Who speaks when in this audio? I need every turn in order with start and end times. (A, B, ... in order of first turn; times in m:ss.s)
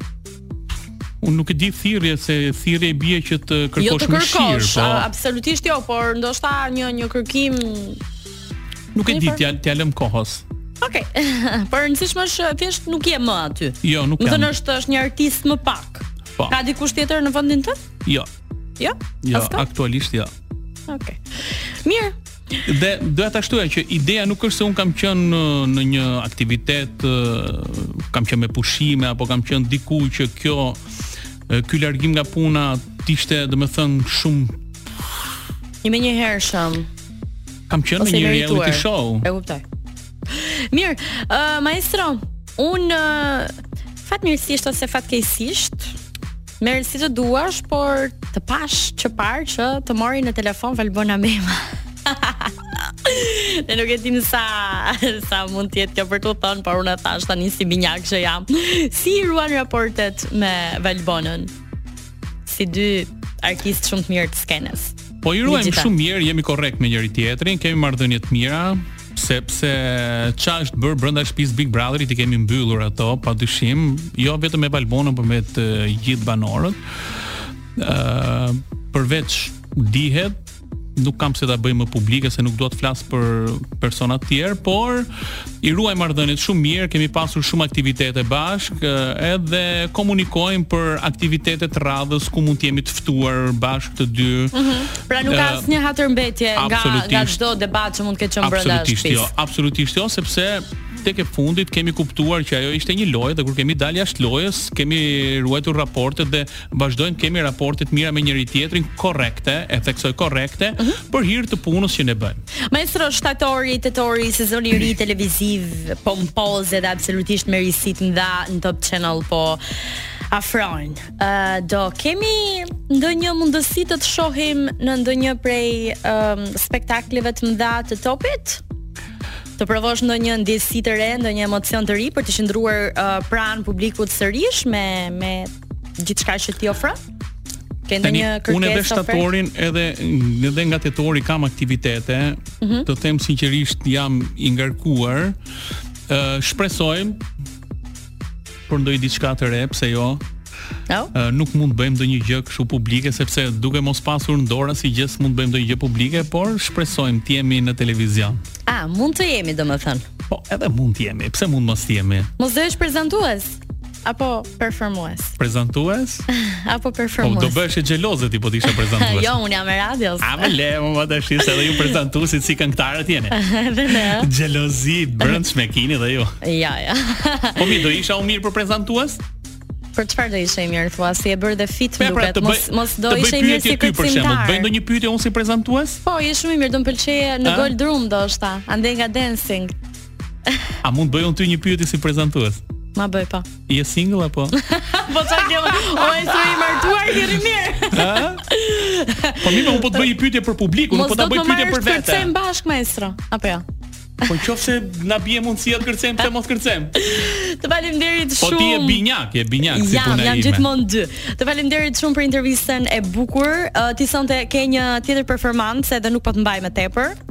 0:01.2-0:05.1 A
0:03.8-0:08.0 B
0:08.9-0:10.4 A
0:09.1-0:09.4 B
0:10.8-0:17.8 B
0:13.8-0:14.5 A
0:18.8-0:19.6 B
0:19.2-0:20.3 A
0:20.9-0:21.2 B
0:21.8-0:22.1 B
0:22.6-0:30.8 A
0:31.5-0:34.6 A
0:35.8-0:36.9 B
0:37.7-0:39.3 A
0:38.0-0:39.6 B
0:40.3-0:46.0 B
0:46.6-1:01.5 B
1:02.4-1:05.9 B
1:05.2-1:16.8 A
1:17.8-1:20.4 A
1:21.0-1:25.1 A
1:25.6-1:34.6 A
1:34.5-1:39.3 B
1:35.2-1:35.7 A
1:36.6-1:37.4 A
1:38.4-1:52.4 A
1:52.7-1:59.6 B
2:00.3-2:08.6 B
2:09.6-2:17.0 B
2:17.9-2:19.3 B
2:18.0-2:25.4 A
2:22.6-2:22.9 B
2:26.1-2:27.2 A
2:28.7-2:30.2 A
2:31.1-2:38.4 A
2:38.7-2:40.0 B
2:40.3-2:42.3 A
2:42.4-2:45.4 B
2:45.4-2:46.3 A
2:46.3-2:47.6 B
2:47.2-2:49.4 A
2:48.6-2:50.5 B
2:50.2-2:53.4 A
2:51.5-2:51.9 B
2:53.3-2:54.3 B
2:53.9-2:56.4 A
2:56.4-2:57.8 B
2:57.6-2:59.2 A
3:00.0-3:04.7 B
3:02.0-3:06.0 A
3:06.0-3:09.7 B
3:07.4-3:07.7 A
3:10.8-3:12.6 A
3:13.0-3:13.5 B
3:13.7-3:14.6 A
3:14.5-3:20.0 B
3:15.6-3:16.4 A
3:17.9-3:18.4 A
3:19.4-3:22.3 A
3:20.9-3:23.6 B
3:24.3-3:27.0 A
3:27.0-3:29.0 B
3:28.4-3:30.7 A
3:29.7-3:37.2 B